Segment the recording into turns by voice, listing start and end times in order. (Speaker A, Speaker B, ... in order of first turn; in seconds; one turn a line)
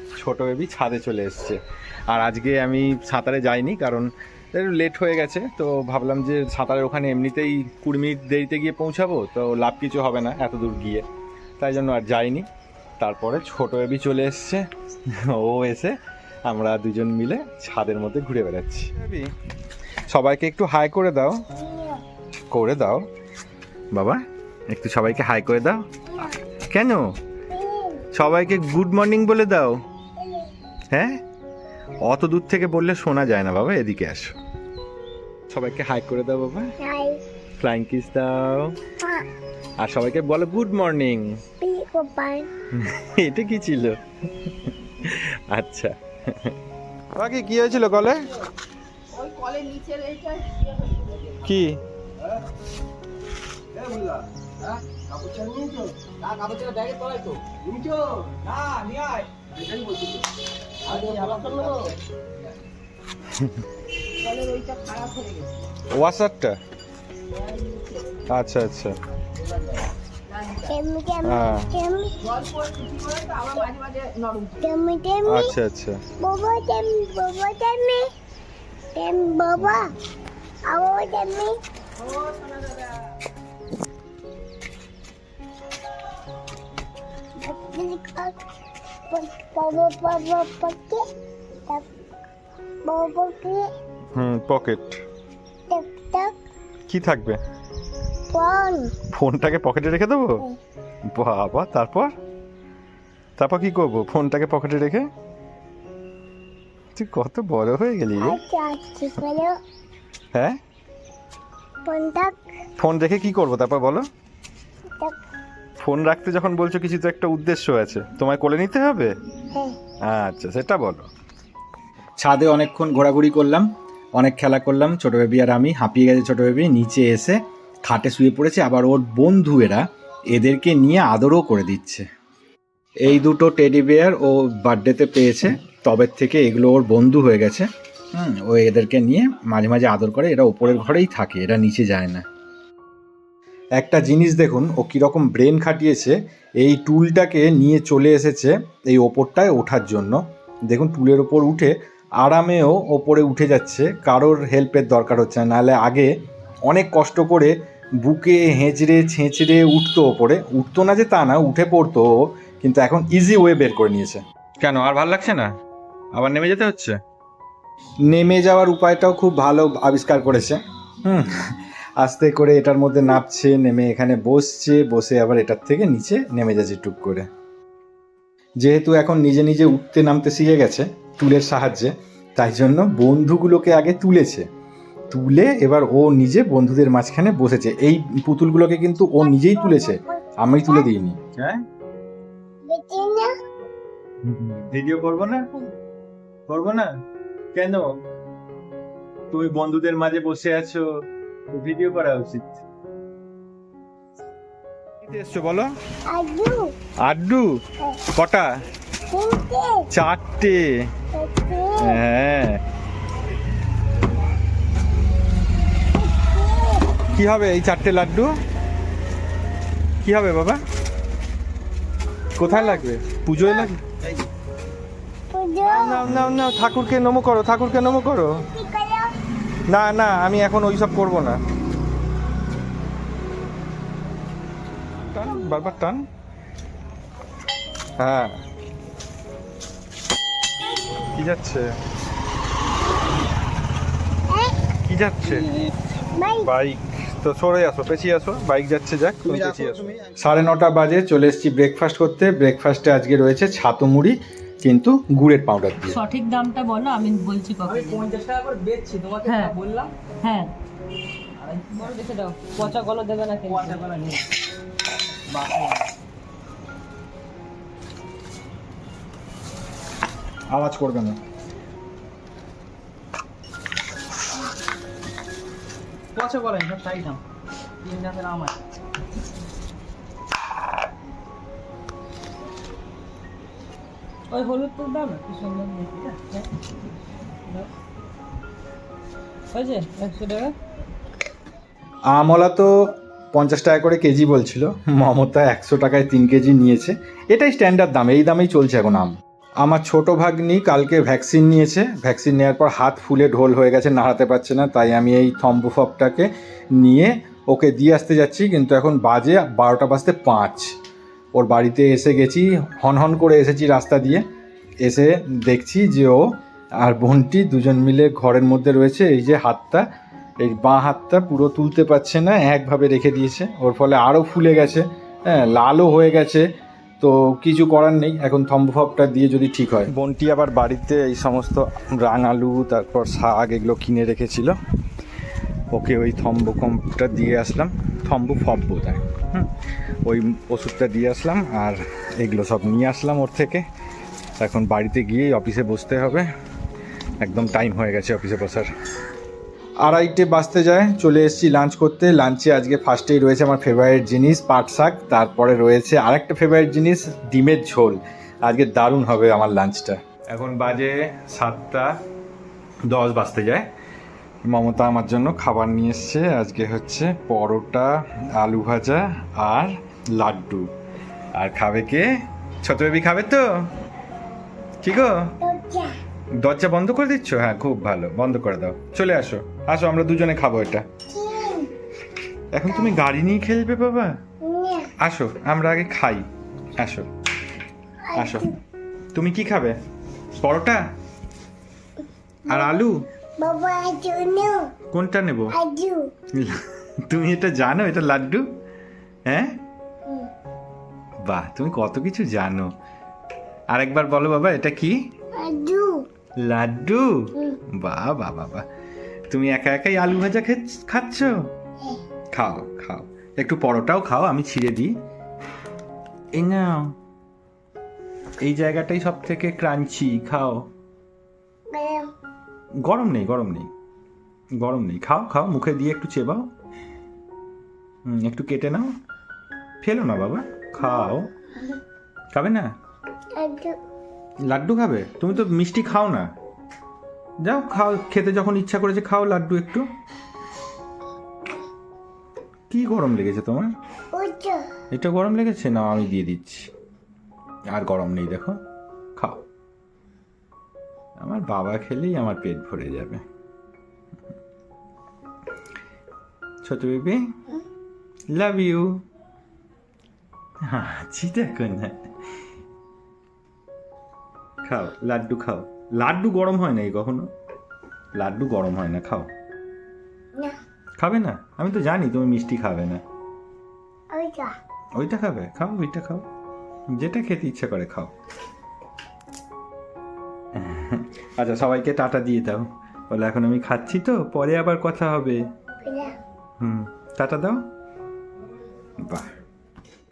Speaker A: 0.2-11.0
Speaker A: 11.6-12.5
Speaker A: 13.0-14.6
Speaker A: 15.2-16.0
Speaker A: 16.5-19.3
Speaker A: 20.1-21.4
Speaker B: 21.5-22.0
Speaker A: 22.5-23.0
Speaker A: 23.9-27.1
Speaker B: 27.5-28.1
Speaker A: 28.1-29.8
Speaker B: 30.2-30.5
Speaker A: 30.9-31.2
Speaker A: 32.0-34.4
Speaker A: 35.5-36.7
Speaker B: 36.8-37.2
Speaker A: 37.6-38.8
Speaker B: 39.0-39.3
Speaker A: 39.8-41.4
Speaker B: 41.6-42.5
Speaker A: 42.8-46.5
Speaker A: 47.1-48.3
Speaker C: 49.1-51.4
Speaker A: 51.4-51.8
Speaker C: 53.8-60.2
Speaker C: 60.8-62.0
Speaker C: 64.2-65.5
Speaker A: 65.9-66.6
Speaker C: 67.6-67.8
Speaker A: 68.3-69.0
Speaker C: 70.3-70.7
Speaker B: 70.7-72.2
Speaker A: 71.2-71.7
Speaker C: 72.3-74.6
Speaker B: 74.6-75.5
Speaker A: 75.3-76.0
Speaker B: 76.2-78.1
Speaker B: 79.0-79.9
Speaker B: 80.7-81.6
Speaker C: 82.1-82.9
Speaker B: 87.4-88.4
Speaker B: 89.1-91.0
Speaker B: 92.8-93.7
Speaker A: 94.2-95.0
Speaker B: 95.7-96.3
Speaker A: 96.9-97.4
Speaker B: 98.3-98.9
Speaker A: 99.1-100.4
Speaker A: 101.1-102.1
Speaker A: 103.4-105.0
Speaker A: 107.0-108.4
Speaker B: 108.2-109.6
Speaker B: 111.8-112.4
Speaker A: 112.8-114.0
Speaker A: 115.8-119.1
Speaker A: 120.0-121.1
Speaker A: 122.2-123.7
Speaker A: 124.2-132.1
Speaker A: 133.1-142.2
Speaker A: 143.8-156.1
Speaker A: 156.7-165.5
Speaker A: 166.1-167.0
Speaker A: 168.1-177.3
Speaker A: 178.6-184.4
Speaker A: 185.1-191.6
Speaker B: 189.2-190.9
Speaker B: 192.7-193.3
Speaker A: 194.2-195.4
Speaker A: 196.5-196.9
Speaker A: 197.5-198.0
Speaker A: 199.3-200.9
Speaker A: 201.5-202.6
Speaker A: 205.0-205.7
Speaker B: 206.1-206.7
Speaker A: 207.0-207.5
Speaker A: 208.1-208.5
Speaker B: 209.1-209.9
Speaker A: 209.9-210.9
Speaker B: 211.1-212.0
Speaker A: 211.8-212.6
Speaker B: 215.9-216.9
Speaker A: 217.2-218.3
Speaker A: 220.0-220.6
Speaker A: 222.4-223.8
Speaker B: 222.4-222.8
Speaker B: 225.3-226.1
Speaker A: 225.6-228.5
Speaker B: 228.3-229.1
Speaker A: 229.7-231.4
Speaker A: 235.0-236.0
Speaker A: 238.0-238.4
Speaker A: 241.2-241.7
Speaker B: 244.3-244.6
Speaker A: 244.8-245.5
Speaker B: 246.2-246.5
Speaker A: 246.4-256.0
Speaker D: 255.9-258.1
Speaker C: 257.6-259.9
Speaker D: 259.2-259.6
Speaker D: 260.2-260.5
Speaker C: 261.4-261.7
Speaker D: 261.7-263.9
Speaker C: 263.5-264.2
Speaker C: 265.3-265.9
Speaker A: 270.5-271.2
Speaker C: 276.1-277.2
Speaker C: 277.8-278.6
Speaker D: 284.3-287.7
Speaker D: 289.5-290.5
Speaker A: 292.1-292.7
Speaker A: 293.3-310.7
Speaker A: 311.4-314.2
Speaker A: 314.8-316.3
Speaker A: 316.8-319.9
Speaker A: 320.4-326.5
Speaker A: 327.0-334.6
Speaker A: 335.7-339.5
Speaker A: 340.1-343.6
Speaker A: 344.4-346.3
Speaker A: 347.2-348.7
Speaker A: 349.8-361.9
Speaker A: 362.9-363.7
Speaker A: 364.5-370.7
Speaker A: 371.4-372.1
Speaker A: 372.6-373.7
Speaker A: 374.8-375.3
Speaker B: 375.4-375.9
Speaker A: 376.4-380.9
Speaker B: 381.1-381.7
Speaker A: 382.5-384.2
Speaker B: 382.7-382.9
Speaker B: 384.4-384.9
Speaker A: 385.0-386.2
Speaker A: 386.8-387.1
Speaker B: 388.0-388.6
Speaker A: 388.2-388.5
Speaker A: 389.1-389.8
Speaker A: 390.4-390.8
Speaker B: 392.5-392.9
Speaker A: 392.5-393.1
Speaker B: 393.4-394.7
Speaker A: 394.9-395.6
Speaker B: 395.5-396.0
Speaker A: 396.4-398.5
Speaker A: 399.3-399.5
Speaker A: 401.2-402.7
Speaker A: 403.7-405.0
Speaker B: 405.4-406.0
Speaker A: 406.4-408.6
Speaker A: 409.3-411.5
Speaker A: 412.3-414.9
Speaker A: 416.3-417.0
Speaker A: 418.4-420.7
Speaker B: 421.7-422.1
Speaker A: 422.8-423.7
Speaker A: 424.6-426.5
Speaker A: 428.1-428.9
Speaker A: 429.8-431.3
Speaker B: 430.8-431.1
Speaker A: 432.3-432.7
Speaker B: 433.4-433.8
Speaker A: 434.5-436.3
Speaker A: 437.4-439.9
Speaker A: 442.7-443.7
Speaker B: 444.1-444.7
Speaker A: 444.9-446.7
Speaker A: 447.7-448.6
Speaker A: 449.2-449.4
Speaker A: 451.2-453.2
Speaker A: 456.6-457.2
Speaker A: 458.3-459.0
Speaker A: 460.6-462.1
Speaker A: 464.6-467.3
Speaker A: 468.2-469.3
Speaker A: 471.0-473.0
Speaker B: 474.1-474.6
Speaker A: 475.0-476.2
Speaker A: 476.9-478.1
Speaker A: 480.5-485.4
Speaker B: 485.8-486.1
Speaker A: 486.6-487.6
Speaker A: 489.0-489.3